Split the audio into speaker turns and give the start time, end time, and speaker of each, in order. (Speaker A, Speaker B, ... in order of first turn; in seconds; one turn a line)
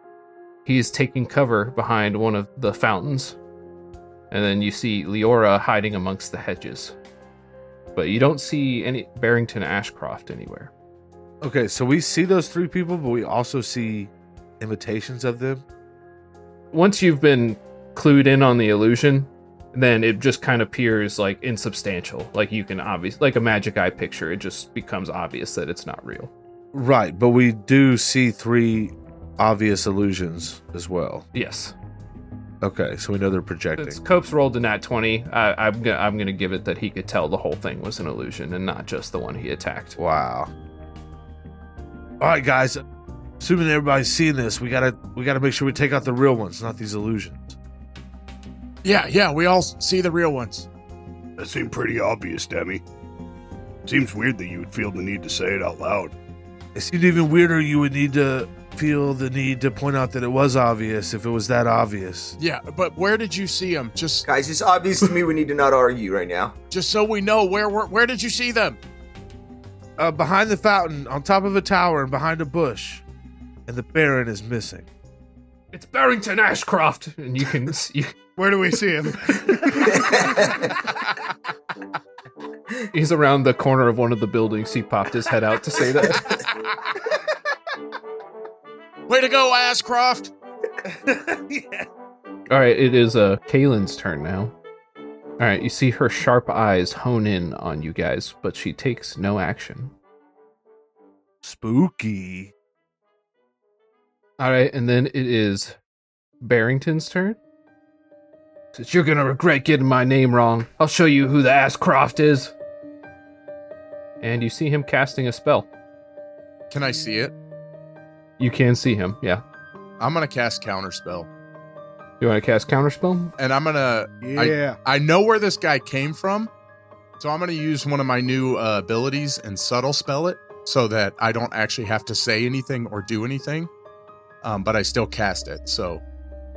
Speaker A: 0.6-3.4
Speaker A: 4.3-6.9
Speaker A: 7.9-10.7
Speaker B: 11.4-15.6
Speaker A: 16.7-26.3
Speaker B: 26.7-31.2
Speaker A: 31.3-31.7
Speaker B: 32.6-34.0
Speaker A: 33.8-40.0
Speaker B: 40.0-40.5
Speaker B: 42.2-42.8
Speaker B: 43.4-47.6
Speaker C: 48.8-50.7
Speaker D: 51.4-52.8
Speaker D: 53.9-56.1
Speaker B: 56.7-62.3
Speaker C: 62.4-64.3
Speaker E: 64.3-66.5
Speaker C: 66.7-68.8
Speaker B: 70.0-73.0
Speaker B: 73.7-74.9
Speaker A: 75.7-78.1
Speaker F: 78.4-80.3
Speaker E: 79.9-80.7
Speaker A: 82.9-86.4
Speaker C: 89.1-90.3
Speaker B: 90.8-91.9
Speaker A: 92.5-94.5
Speaker A: 95.4-99.9
Speaker B: 101.4-102.5
Speaker A: 104.4-105.8
Speaker A: 106.4-107.4
Speaker A: 108.7-112.5
Speaker A: 114.2-115.7
Speaker C: 116.7-117.3
Speaker A: 118.4-119.4
Speaker C: 120.0-121.3
Speaker A: 122.2-123.3
Speaker C: 123.4-126.5
Speaker F: 124.2-124.8
Speaker C: 127.2-133.7
Speaker C: 134.4-136.0